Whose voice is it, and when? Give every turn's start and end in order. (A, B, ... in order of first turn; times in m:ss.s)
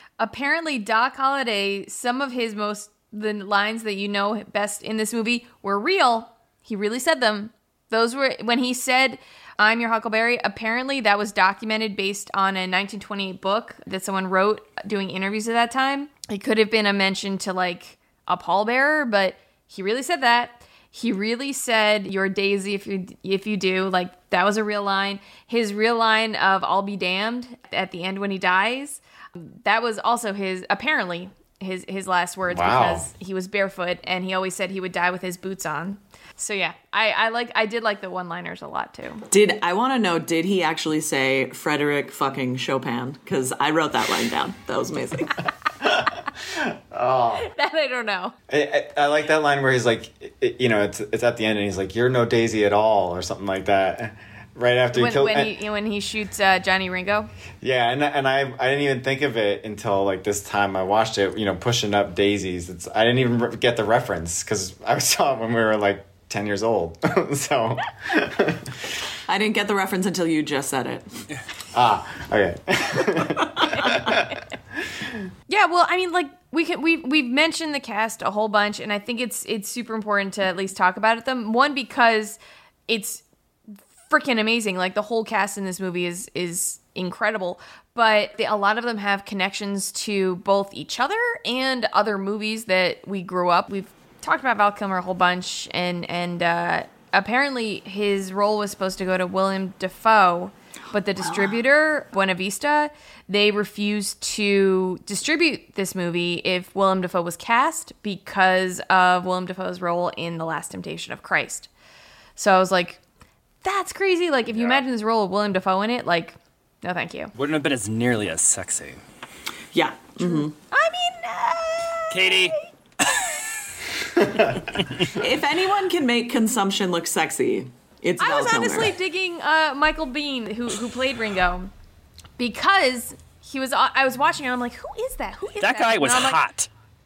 0:00.2-0:39.3 A
0:32.5-0:33.1 B
0:39.3-0:45.4 C
0:45.8-0:47.5 B
0:47.4-0:48.3 A
0:48.5-0:55.5 B
0:54.9-0:57.3 A
0:57.6-1:08.9 B
1:09.3-1:11.1 C
1:11.7-1:15.2 B
1:15.5-1:23.2 A
1:24.1-1:51.7 A
1:52.4-1:53.0 A
1:53.6-1:57.3 A
1:54.5-1:54.8 D
1:57.3-1:59.0 D
1:59.7-2:00.5 C
2:00.2-2:02.7 A
2:02.1-2:03.4 D
2:04.2-2:04.7 B
2:04.8-2:05.1 D
2:05.1-2:08.9 C
2:08.2-2:11.7 A
2:12.4-2:16.4 A
2:15.6-2:16.7 D